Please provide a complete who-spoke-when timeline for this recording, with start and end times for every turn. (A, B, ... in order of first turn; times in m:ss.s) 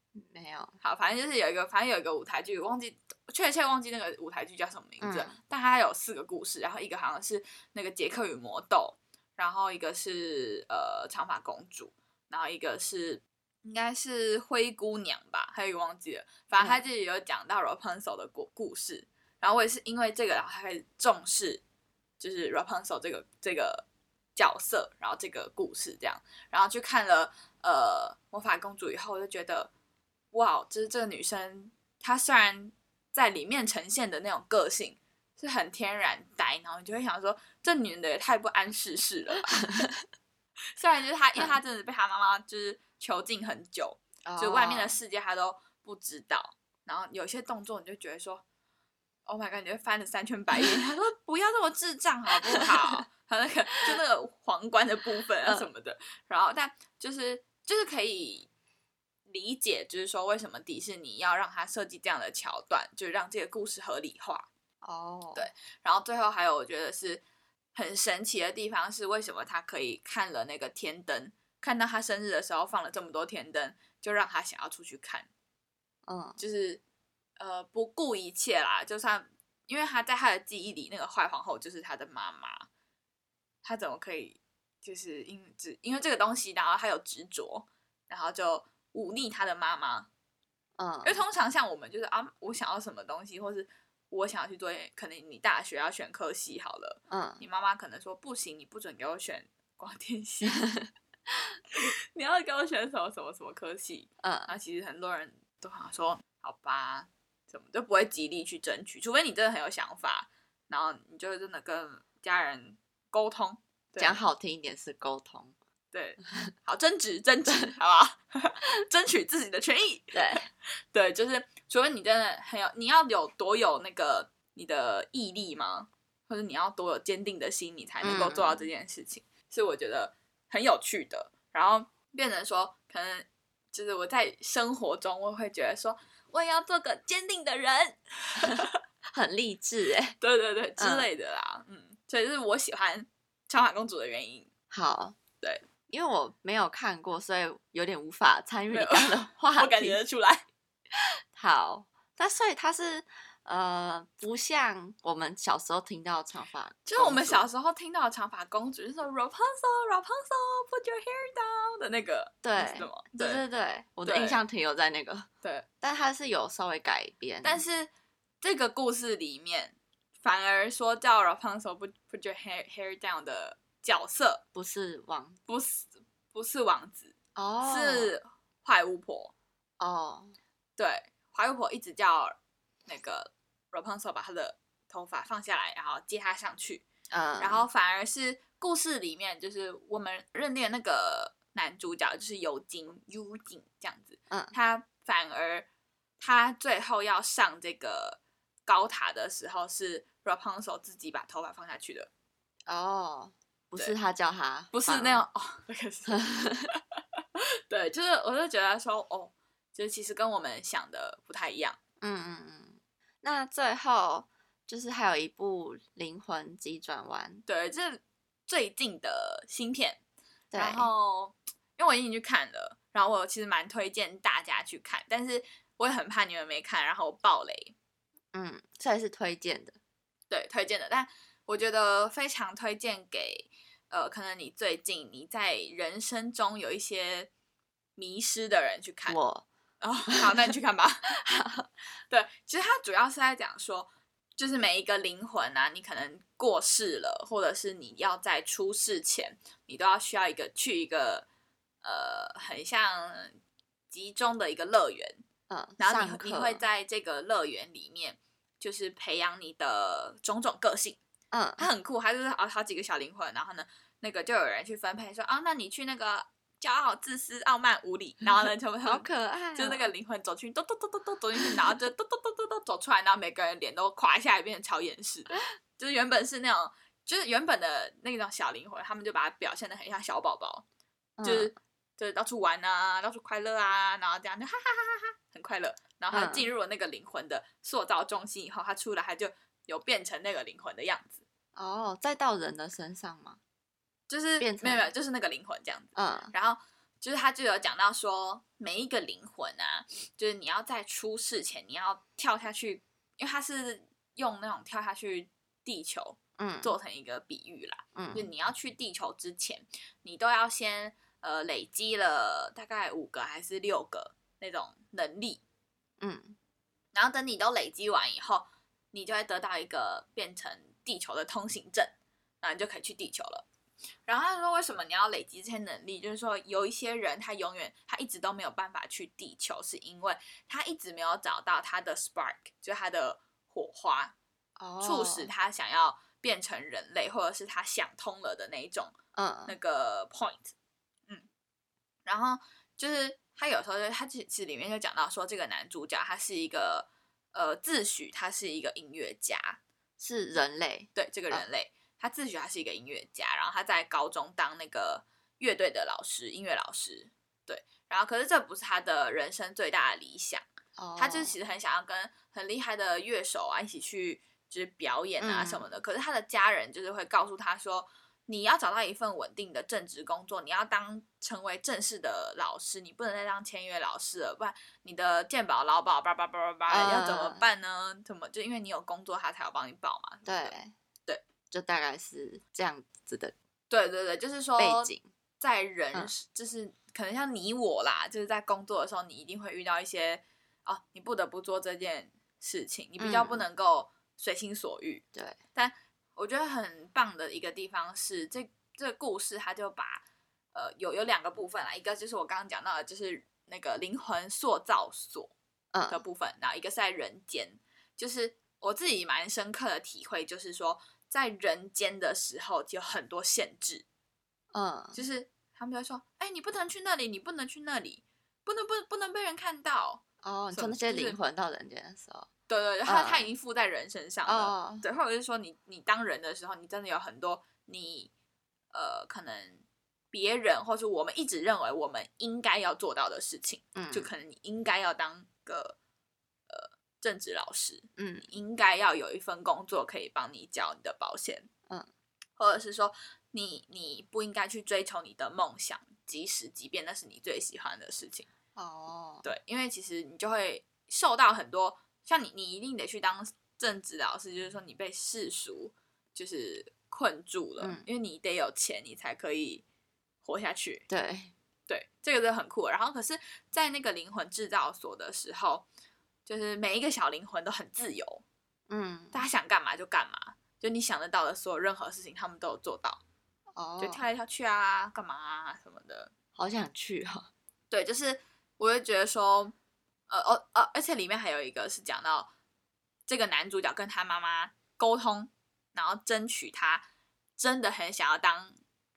0:00.2-0:00.8 A
0:00.8-0:21.6 B
0:05.0-0:05.4 A
0:22.2-0:23.8 B
0:24.4-0:29.7 B
0:30.3-0:39.8 B
0:40.8-0:48.4 B
0:44.2-0:45.0 A
0:49.3-0:58.5 B
0:59.3-1:04.5 B
1:04.8-1:05.5 A
1:05.4-1:07.2 B
1:07.8-1:15.3 B
1:16.1-1:16.4 A
1:16.4-1:16.8 B
1:17.4-1:22.7 B
1:23.6-1:30.1 B
1:30.8-1:31.2 A
1:31.0-1:40.6 B
1:37.1-1:37.4 A
1:41.8-1:54.2 B
1:44.2-1:44.5 A
1:54.0-1:55.5 A
1:55.9-2:18.8 B
2:00.1-2:00.5 A
2:08.0-2:08.6 A
2:19.1-2:20.2 A
2:20.2-2:24.5 B
2:20.8-2:21.1 A
2:24.7-2:25.2 A
2:25.9-2:30.0 A
2:28.7-2:30.4 B
2:31.4-2:37.5 A
2:36.9-2:43.4 B
2:42.4-2:45.3 A
2:44.0-2:44.4 B
2:45.8-2:47.6 A
2:47.4-2:47.9 B
2:48.4-2:54.4 B
2:54.5-2:55.4 A
2:55.5-2:59.3 B
2:57.4-2:58.1 A
2:59.8-3:00.4 A
3:00.8-3:06.8 B
3:07.1-3:07.7 A
3:07.4-3:15.7 B
3:16.2-3:22.1 B
3:22.7-3:25.2 A
3:24.7-3:26.8 B
3:26.1-3:26.7 A
3:27.7-3:31.8 B
3:32.0-3:37.4 A
3:37.5-3:40.0 B
3:40.5-3:40.9 A
3:40.6-3:47.7 B
3:48.3-3:49.8 A
3:50.3-3:57.3 B
3:58.0-3:59.2 B
3:59.1-3:59.4 A
3:59.8-4:01.0 B
4:00.1-4:00.5 A
4:01.2-4:01.7 A
4:02.1-4:11.3 B
4:11.8-4:13.4 B
4:13.9-4:15.2 B
4:15.5-4:16.6 A
4:15.8-4:21.0 B
4:21.3-4:21.7 A
4:21.6-4:40.6 B
4:28.8-4:29.9 A
4:41.2-4:41.5 A
4:41.2-4:51.2 B
4:46.1-4:46.5 A
4:51.6-4:53.4 A
4:54.1-5:15.4 B
4:54.4-4:54.9 A
4:56.0-4:56.3 A
5:06.4-5:06.7 A
5:08.0-5:08.3 A
5:16.0-5:16.4 A
5:16.9-5:23.4 B
5:24.1-5:34.1 B
5:34.6-5:35.3 A
5:34.8-5:39.0 B
5:39.2-5:39.6 A
5:39.5-5:40.5 B
5:42.1-5:49.6 B
5:50.0-5:51.4 A
5:51.0-6:00.4 B
6:00.8-6:01.4 A
6:01.0-6:20.5 B
6:05.2-6:05.7 A
6:16.7-6:17.5 A
6:20.2-6:20.7 A
6:21.5-6:23.3 A
6:23.7-6:35.0 B
6:24.6-6:25.1 A
6:33.0-6:33.4 A
6:35.6-6:40.0 B
6:40.5-6:45.3 B
6:45.7-6:46.0 A
6:45.9-6:53.8 B
6:54.5-6:55.0 A
6:54.9-7:01.2 B
7:00.2-7:02.3 A
7:02.5-7:08.1 B
7:02.9-7:03.3 A
7:04.3-7:04.8 A
7:08.7-7:15.8 B
7:13.8-7:14.1 A
7:16.5-7:21.5 B
7:18.0-7:18.3 A
7:22.4-7:28.3 B
7:28.6-7:29.3 A
7:29.2-7:39.6 B
7:37.6-7:37.9 A
7:40.2-7:40.9 B
7:40.9-7:41.3 A
7:41.7-7:45.7 B
7:46.3-7:48.2 B
7:48.7-7:49.2 A
7:49.1-7:53.0 B
7:53.6-7:54.0 A
7:53.8-7:56.1 B
7:56.4-7:57.3 A
7:57.7-7:59.5 B
8:00.1-8:02.3 B
8:03.1-8:06.8 B
8:07.4-8:08.6 B